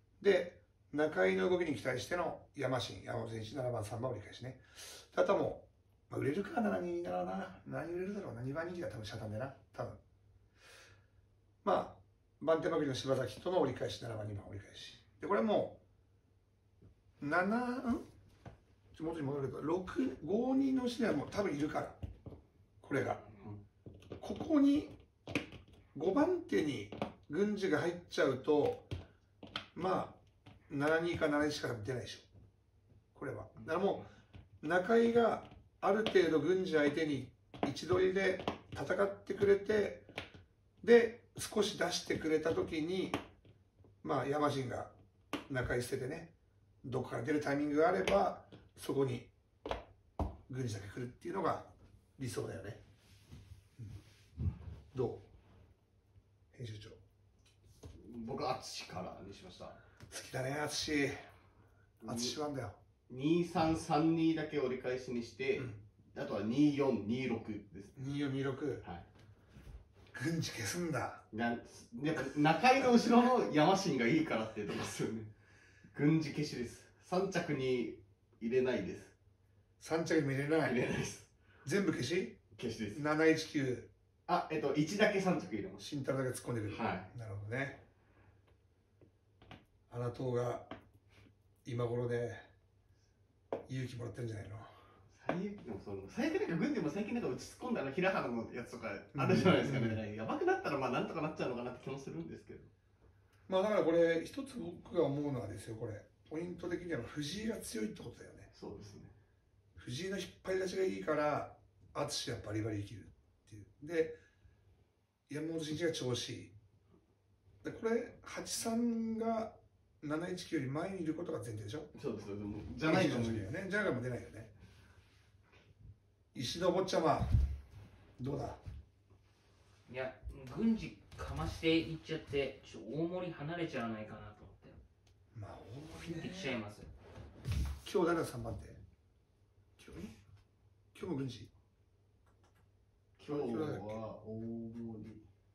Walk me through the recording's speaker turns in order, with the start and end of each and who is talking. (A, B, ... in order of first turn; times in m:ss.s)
0:00.2-0:10.0 A
0:11.6-0:15.8 A
0:17.2-0:18.1 A
0:19.0-0:22.0 A
0:22.8-0:23.2 A
0:23.2-0:23.5 B
0:24.2-0:25.0 A
0:25.9-0:28.9 A
0:29.8-0:32.2 A
0:33.2-0:34.1 A
0:34.6-0:40.1 A
0:40.8-0:43.2 A
0:44.0-0:44.9 A
0:45.5-0:49.3 A
0:50.5-0:52.8 A
0:54.9-0:55.3 A
0:56.5-0:57.0 A
0:57.9-0:59.8 C
1:00.1-1:01.3 A
1:02.0-1:02.4 C
1:02.0-1:02.8 A
1:03.1-1:08.1 C
1:08.0-1:08.8 A
1:10.1-1:11.2 A
1:11.3-1:15.3 C
1:15.9-1:19.2 C
1:19.8-1:20.8 A
1:20.6-1:21.3 C
1:21.6-1:22.4 A
1:22.5-1:23.0 C
1:22.9-1:23.9 A
1:24.3-1:25.9 C
1:25.8-1:27.8 A
1:26.7-1:27.1 C
1:29.9-1:30.7 A
1:31.6-1:32.5 A
1:33.7-1:34.7 A
1:35.1-1:42.7 C
1:39.1-1:40.0 A
1:43.5-1:48.5 A
1:48.5-1:49.1 C
1:49.8-1:54.2 A
1:55.3-1:56.6 A
1:57.6-2:01.9 A
2:01.9-2:03.6 C
2:02.8-2:04.5 A
2:06.3-2:07.4 A
2:08.2-2:08.6 A
2:09.9-2:14.8 B
2:15.3-2:16.6 A
2:15.9-2:16.9 B
2:17.8-2:18.8 A
2:19.8-2:20.1 A
2:21.0-2:21.5 A
2:23.2-2:25.2 C
2:23.3-2:24.0 A